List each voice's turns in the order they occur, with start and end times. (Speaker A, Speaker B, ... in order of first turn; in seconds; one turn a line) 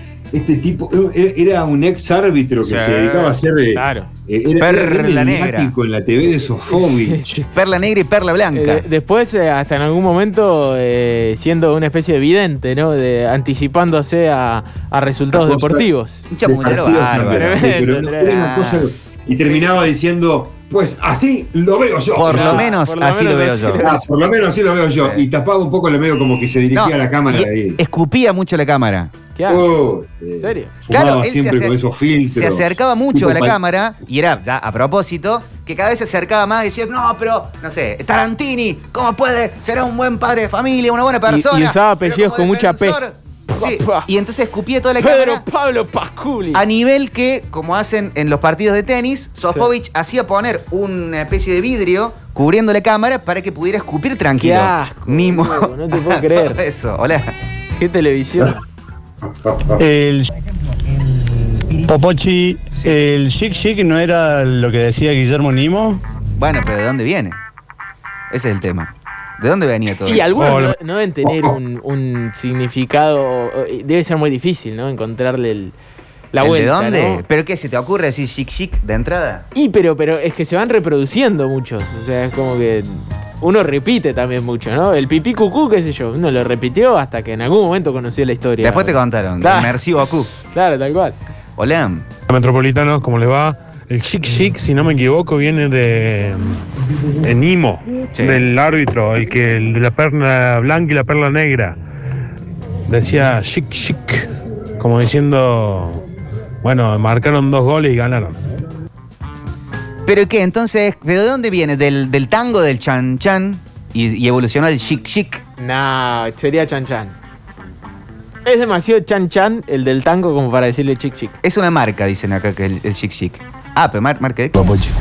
Speaker A: 0.3-7.2
Speaker B: 2.6-4.1
Speaker C: 4.6-5.7
Speaker B: 6.7-7.5
Speaker C: 7.5-8.8
Speaker B: 8.5-16.2
Speaker A: 15.3-15.9
Speaker C: 16.3-18.9
Speaker A: 16.4-22.6
Speaker B: 17.3-18.5
Speaker B: 19.3-19.7
Speaker C: 22.1-23.9
Speaker B: 22.3-24.0
Speaker A: 23.8-27.8
Speaker C: 25.0-25.2
Speaker C: 26.7-29.1
Speaker B: 29.3-29.6
Speaker A: 29.5-33.6
Speaker B: 30.4-30.7
Speaker C: 30.9-31.8
Speaker C: 32.3-45.4
Speaker B: 41.3-43.0
Speaker B: 43.5-44.1
Speaker B: 45.0-46.6
Speaker C: 46.5-57.3
Speaker B: 54.4-56.6
Speaker B: 57.8-58.6
Speaker A: 59.5-59.8
Speaker D: 59.7-60.3
Speaker D: 61.8-66.0
Speaker C: 62.7-63.0
Speaker C: 66.4-67.4
Speaker C: 68.3-70.3
Speaker B: 70.0-75.7
Speaker E: 70.4-70.7
Speaker A: 71.2-71.5
Speaker B: 76.3-77.2
Speaker C: 76.4-79.5
Speaker B: 79.5-89.8
Speaker C: 88.6-90.3
Speaker B: 90.4-91.2
Speaker C: 91.6-92.1
Speaker E: 92.3-96.6
Speaker E: 97.2-101.8
Speaker C: 98.2-98.5
Speaker E: 102.9-104.3
Speaker E: 104.8-106.0
Speaker E: 106.6-108.4
Speaker C: 110.0-115.4
Speaker B: 115.6-117.1
Speaker B: 118.4-121.4
Speaker C: 121.4-124.5